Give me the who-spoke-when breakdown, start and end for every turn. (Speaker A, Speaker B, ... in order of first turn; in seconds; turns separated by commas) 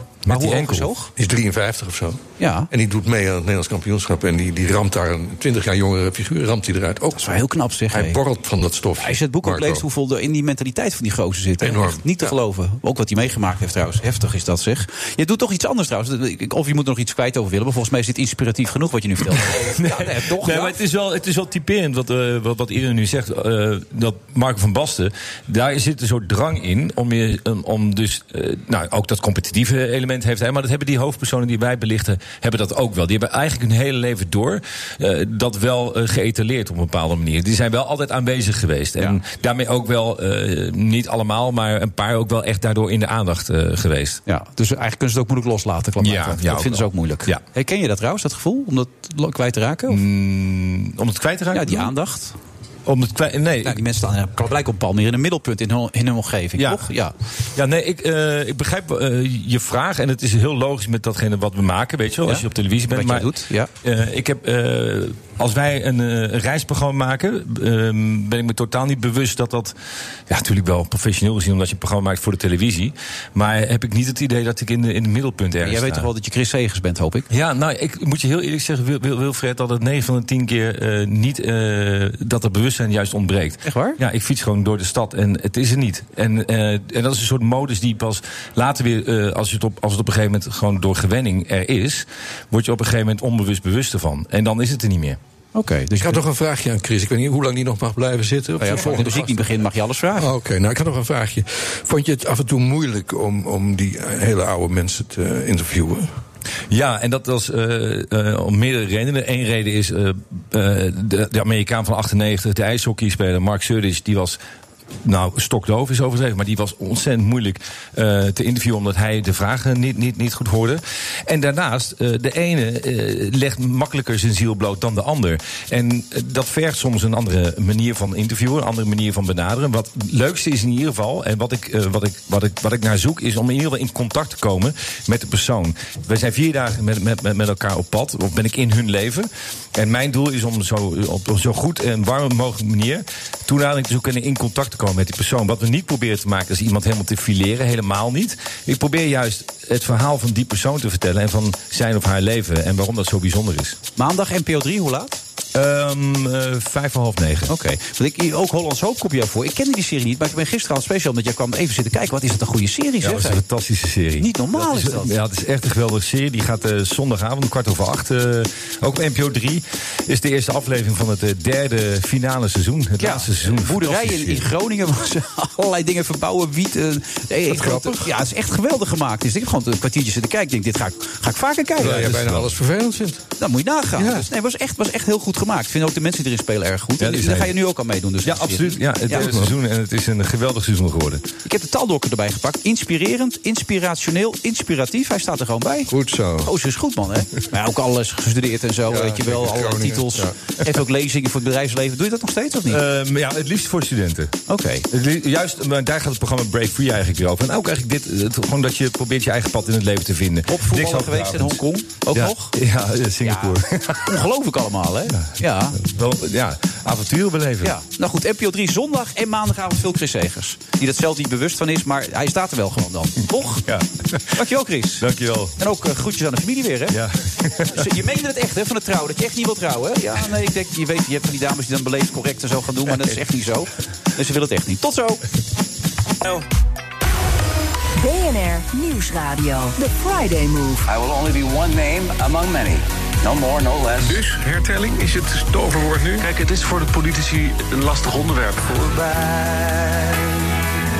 Speaker A: 0.3-0.9, Speaker B: 0.3-1.1, Speaker C: 1.1-9.8, Speaker B: 2.4-2.7, Speaker B: 7.2-8.2, Speaker B: 9.0-20.8, Speaker C: 11.6-12.3, Speaker A: 19.4-44.2, Speaker B: 44.3-50.0, Speaker A: 46.0-47.4, Speaker A: 49.9-51.9, Speaker B: 51.5-52.3, Speaker A: 52.9-53.8, Speaker B: 53.6-57.1, Speaker A: 56.6-56.8, Speaker A: 57.5-63.3, Speaker B: 62.2-63.7, Speaker A: 63.8-69.7, Speaker A: 70.3-76.1, Speaker B: 75.6-77.3, Speaker A: 77.3-95.2, Speaker B: 83.6-84.0, Speaker B: 95.5-96.2, Speaker C: 96.0-99.5, Speaker B: 98.6-100.3, Speaker C: 100.2-106.1, Speaker A: 106.7-114.4, Speaker A: 115.0-153.8, Speaker B: 154.0-155.2, Speaker A: 155.5-157.5, Speaker B: 157.5-163.4, Speaker A: 163.0-174.4, Speaker B: 164.2-165.2, Speaker B: 173.0-182.4, Speaker C: 177.5-178.1, Speaker C: 181.8-183.2, Speaker B: 183.4-189.3, Speaker C: 184.0-184.3, Speaker A: 187.0-187.5, Speaker A: 188.2-191.2, Speaker C: 189.1-189.5, Speaker B: 191.4-195.9, Speaker C: 195.9-196.5, Speaker B: 196.4-202.8, Speaker C: 198.9-200.3, Speaker A: 202.7-204.3, Speaker B: 204.5-204.8, Speaker A: 204.9-214.2, Speaker B: 210.5-212.5, Speaker B: 213.2-215.8, Speaker A: 215.1-217.7, Speaker B: 217.6-223.7, Speaker A: 223.7-224.4, Speaker B: 224.3-225.0, Speaker A: 225.0-225.5, Speaker B: 225.6-227.0, Speaker A: 226.9-227.8, Speaker B: 227.7-235.2, Speaker D: 238.0-240.8, Speaker E: 240.9-244.2, Speaker F: 244.0-248.9, Speaker E: 248.8-250.3